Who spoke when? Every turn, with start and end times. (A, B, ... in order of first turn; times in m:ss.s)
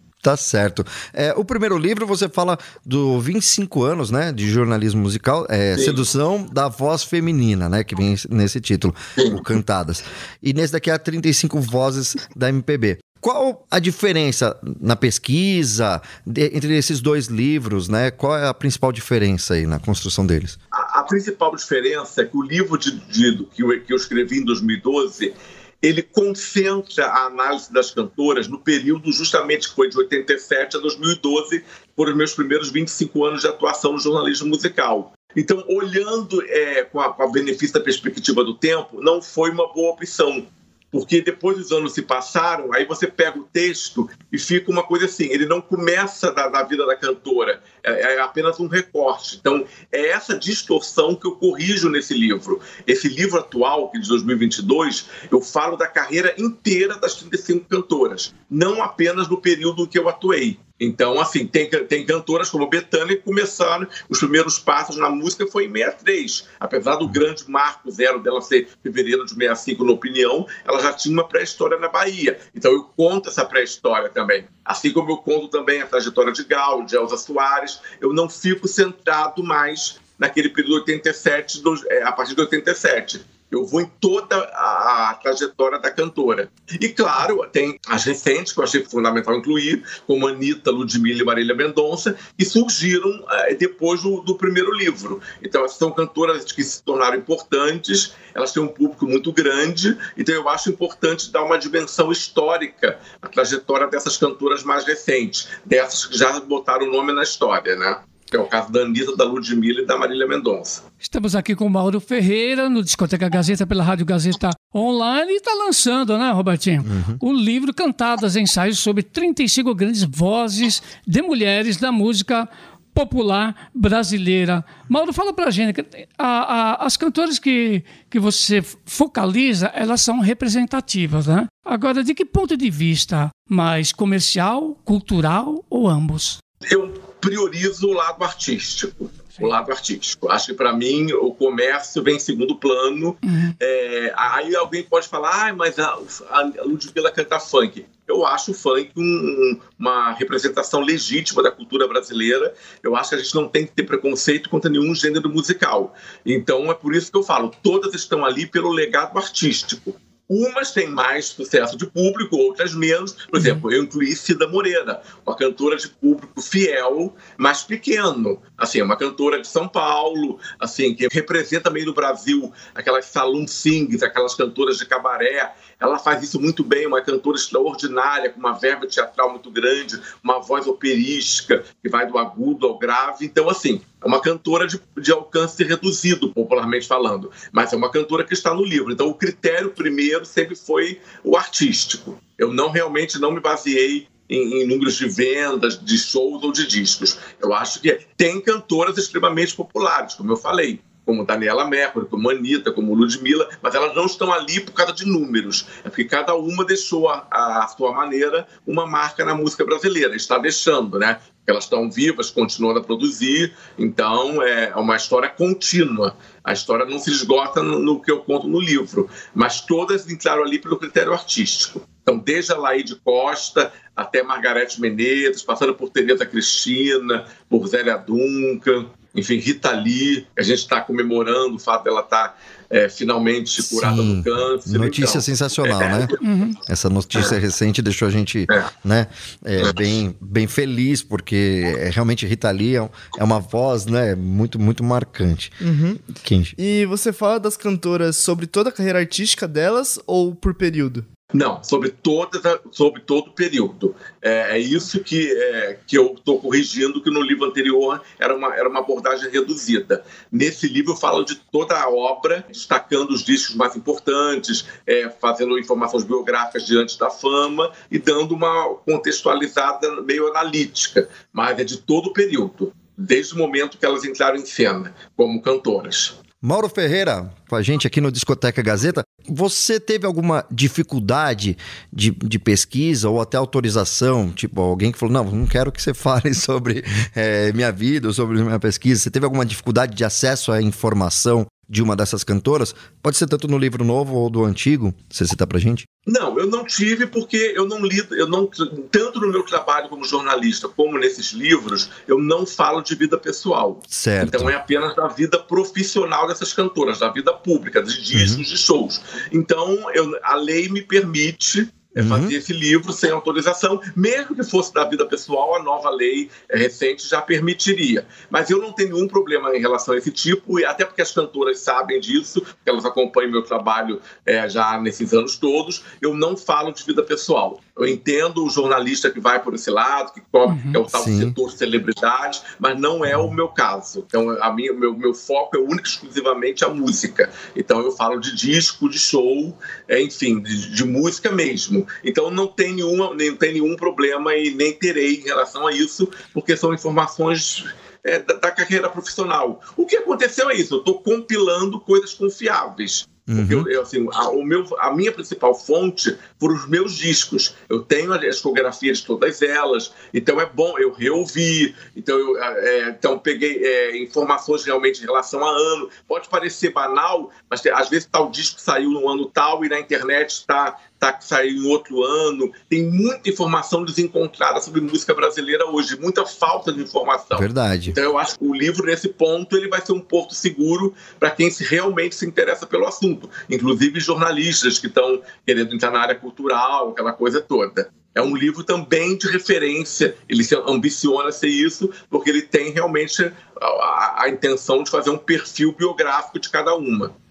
0:00.2-0:20.6 A
0:05.7-0:06.0 B
0:20.7-1:50.8 B
1:51.0-2:16.4 C
1:56.8-1:57.2 A
2:16.6-3:56.2 B
2:23.2-2:23.6 C
3:53.6-3:56.1 A
3:56.2-3:56.6 C
3:56.7-4:05.6 A
4:05.6-4:11.0 D
4:06.2-4:06.5 A
4:11.3-4:36.2 B
4:36.4-4:55.8 A
4:56.1-6:37.1 B
5:03.9-5:04.5 A
5:08.1-5:08.4 A
5:12.0-5:12.3 A
5:30.5-5:30.8 C
5:30.9-5:31.4 A
5:53.3-5:53.7 A
6:17.3-6:18.0 A